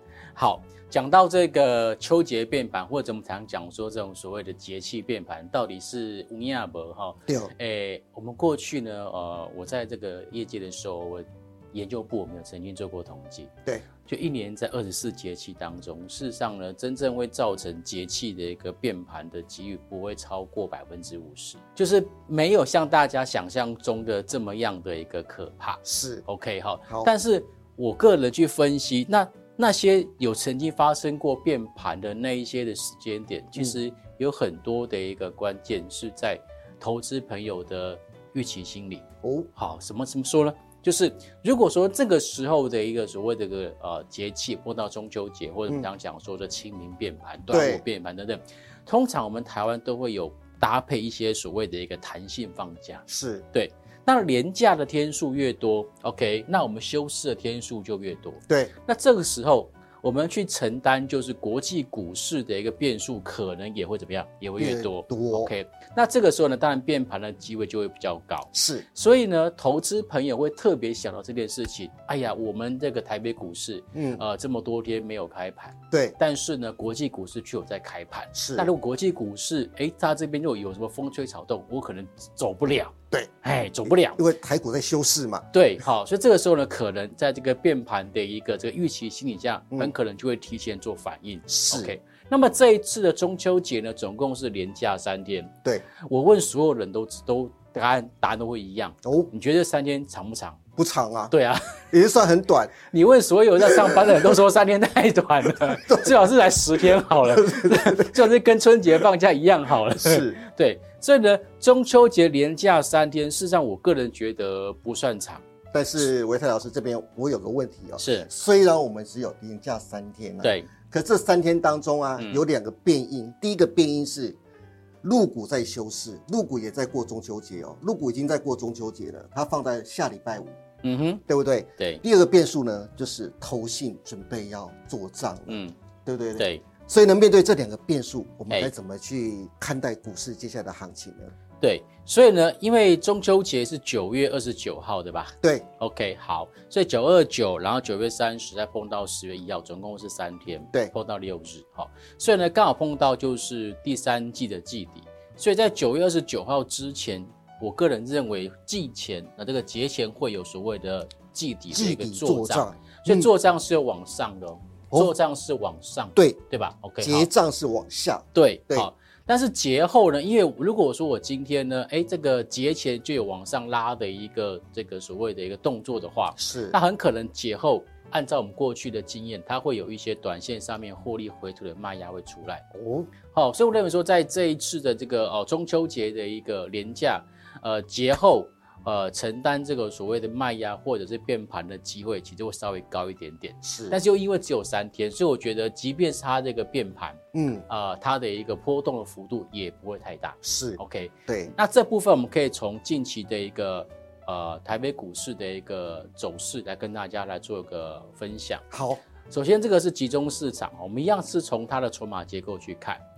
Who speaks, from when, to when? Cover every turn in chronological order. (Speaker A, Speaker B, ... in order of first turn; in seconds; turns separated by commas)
Speaker A: 0.3-13.5, Speaker B: 7.3-7.5, Speaker A: 14.1-84.2, Speaker B: 25.9-26.2, Speaker B: 39.2-39.5, Speaker B: 47.5-47.8, Speaker B: 53.1-53.4, Speaker B: 64.6-65.5, Speaker B: 68.5-68.9, Speaker B: 73.9-74.2, Speaker B: 75.9-76.2, Speaker B: 78.3-78.7, Speaker B: 83.8-85.5, Speaker A: 85.5-100.6, Speaker B: 91.5-91.9, Speaker B: 99.0-99.3, Speaker B: 100.8-101.3, Speaker A: 101.3-101.8, Speaker B: 101.9-102.8, Speaker A: 102.9-115.4, Speaker B: 103.6-104.3, Speaker B: 105.6-106.1, Speaker B: 107.0-108.2, Speaker B: 109.9-110.4, Speaker B: 115.7-124.4, Speaker A: 118.0-118.3, Speaker A: 120.4-120.7, Speaker A: 122.2-122.4, Speaker B: 125.0-130.6, Speaker A: 130.8-131.2, Speaker B: 131.3-141.3, Speaker A: 135.5-135.8, Speaker A: 136.4-136.6, Speaker A: 141.6-167.3, Speaker B: 161.7-163.3, Speaker B: 167.0-168.9, Speaker A: 168.3-182.6, Speaker B: 176.4-176.8, Speaker B: 182.7-183.1, Speaker A: 183.3-208.6, Speaker B: 193.6-194.0, Speaker B: 197.3-197.6, Speaker B: 200.4-201.5, Speaker B: 208.7-209.0, Speaker A: 209.3-213.0